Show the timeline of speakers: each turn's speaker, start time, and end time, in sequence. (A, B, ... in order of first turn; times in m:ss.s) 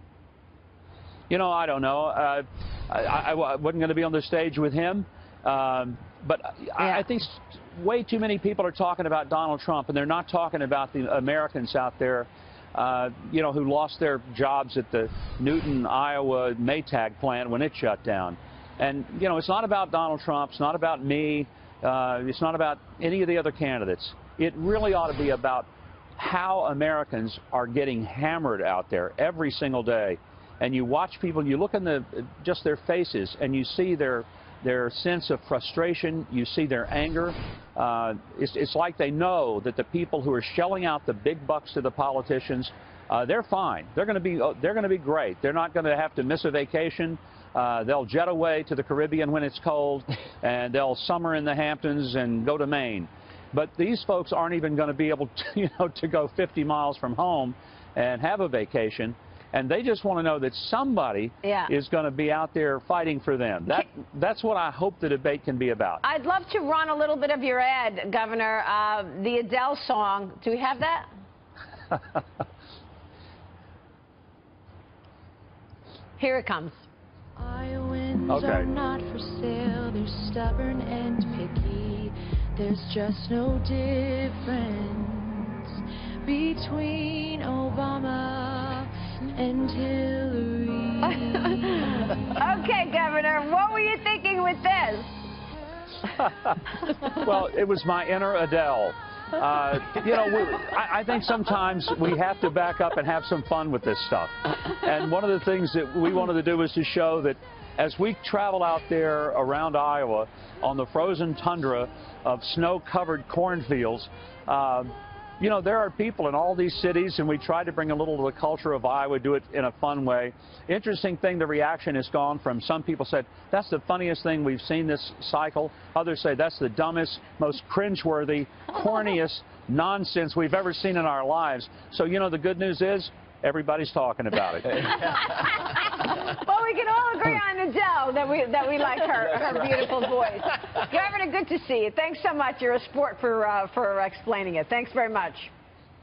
0:01.3-1:06.0 A
1:01.4-1:01.7 B
1:06.0-1:11.1 B
1:16.2-1:16.9 B
1:17.4-1:32.0 C
1:18.3-1:18.7 A
1:31.6-1:35.2 B
1:37.1-2:15.1 A
2:15.1-2:25.5 B